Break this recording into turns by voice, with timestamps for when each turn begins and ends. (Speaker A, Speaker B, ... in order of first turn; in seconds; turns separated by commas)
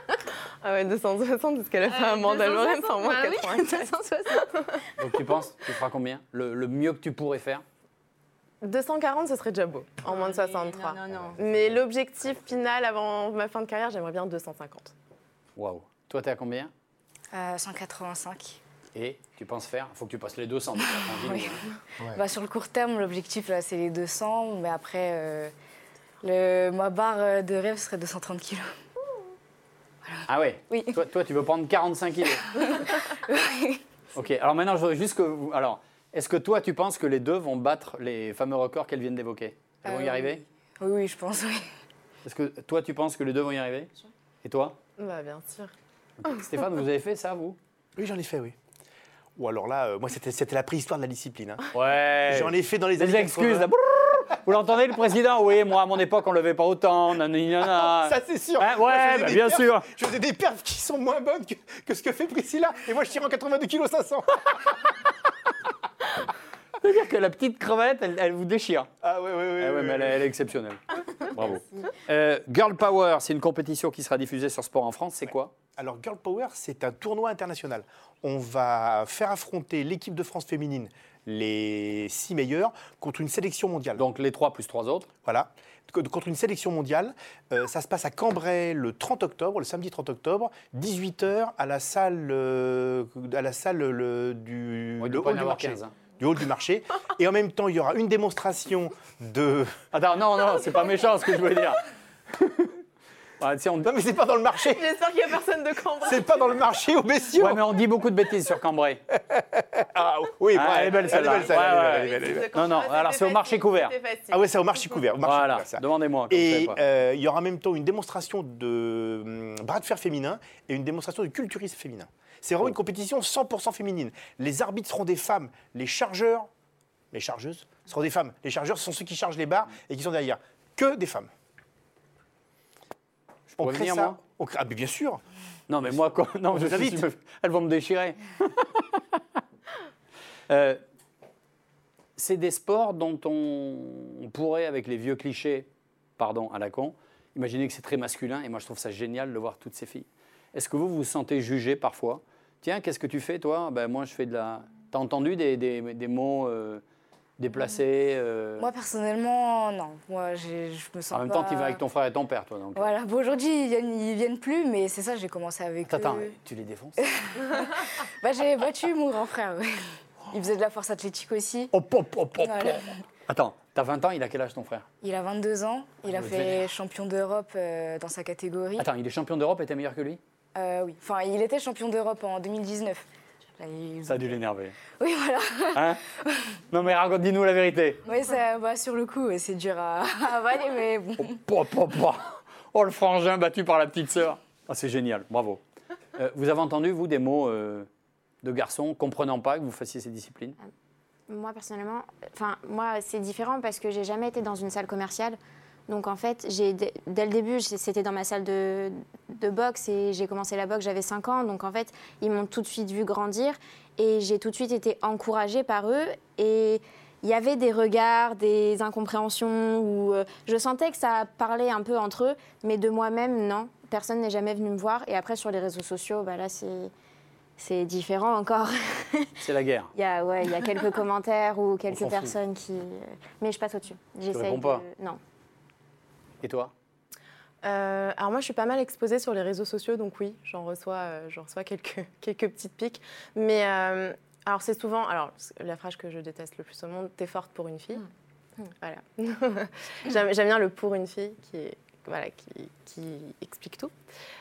Speaker A: 0.6-3.9, Speaker B: 1.9-4.6, Speaker A: 4.4-4.8, Speaker C: 5.0-7.6, Speaker A: 8.6-14.9, Speaker B: 10.1-11.4, Speaker C: 15.6-16.7, Speaker D: 17.3-18.6, Speaker C: 18.9-21.7, Speaker D: 20.8-25.5, Speaker D: 26.2-28.8, Speaker D: 30.0-31.0, Speaker C: 30.3-32.8, Speaker D: 32.5-33.8, Speaker C: 34.1-40.4, Speaker D: 39.9-41.7, Speaker C: 42.2-43.9, Speaker C: 44.4-44.8, Speaker A: 45.0-45.7, Speaker C: 46.2-47.6, Speaker E: 48.0-48.5, Speaker E: 49.4-51.7, Speaker C: 51.7-59.9, Speaker E: 52.3-54.4, Speaker E: 57.6-65.0, Speaker C: 66.8-68.9, Speaker E: 69.0-70.3, Speaker C: 69.6-75.5, Speaker E: 75.8-84.0, Speaker C: 84.0-85.1, Speaker E: 85.2-99.8, Speaker C: 95.0-95.9, Speaker C: 99.9-101.8, Speaker C: 103.4-103.9, Speaker E: 103.8-104.9, Speaker A: 104.7-106.5, Speaker E: 106.0-107.6, Speaker C: 107.4-109.0, Speaker E: 109.3-112.5, Speaker C: 110.5-113.9, Speaker A: 110.8-115.0, Speaker E: 114.3-126.5, Speaker C: 115.2-116.8, Speaker E: 127.1-131.3, Speaker C: 133.5-134.2, Speaker E: 133.6-135.2, Speaker C: 135.7-139.2, Speaker E: 136.5-137.1, Speaker C: 140.5-140.8, Speaker C: 142.2-156.8, Speaker C: 157.4-158.7, Speaker D: 158.6-161.8, Speaker C: 161.1-162.9, Speaker D: 162.8-166.3, Speaker C: 165.9-167.1, Speaker D: 167.0-171.7, Speaker C: 171.7-174.9, Speaker D: 172.4-172.9, Speaker D: 175.0-178.9, Speaker C: 176.1-176.6, Speaker C: 178.8-180.2, Speaker D: 180.5-183.0, Speaker D: 183.6-184.4, Speaker C: 184.1-184.8, Speaker D: 185.0-186.5, Speaker C: 185.7-186.0, Speaker C: 186.7-188.0, Speaker D: 188.0-191.3, Speaker C: 191.2-195.6, Speaker C: 196.1-197.9, Speaker C: 198.4-200.6, Speaker B: 201.3-226.9, Speaker B: 227.6-229.3, Speaker C: 229.4-229.9, Speaker B: 229.9-235.2, Speaker C: 231.9-232.3, Speaker C: 234.3-234.8, Speaker C: 236.4-236.7, Speaker A: 237.6-248.1, Speaker A: 248.7-253.9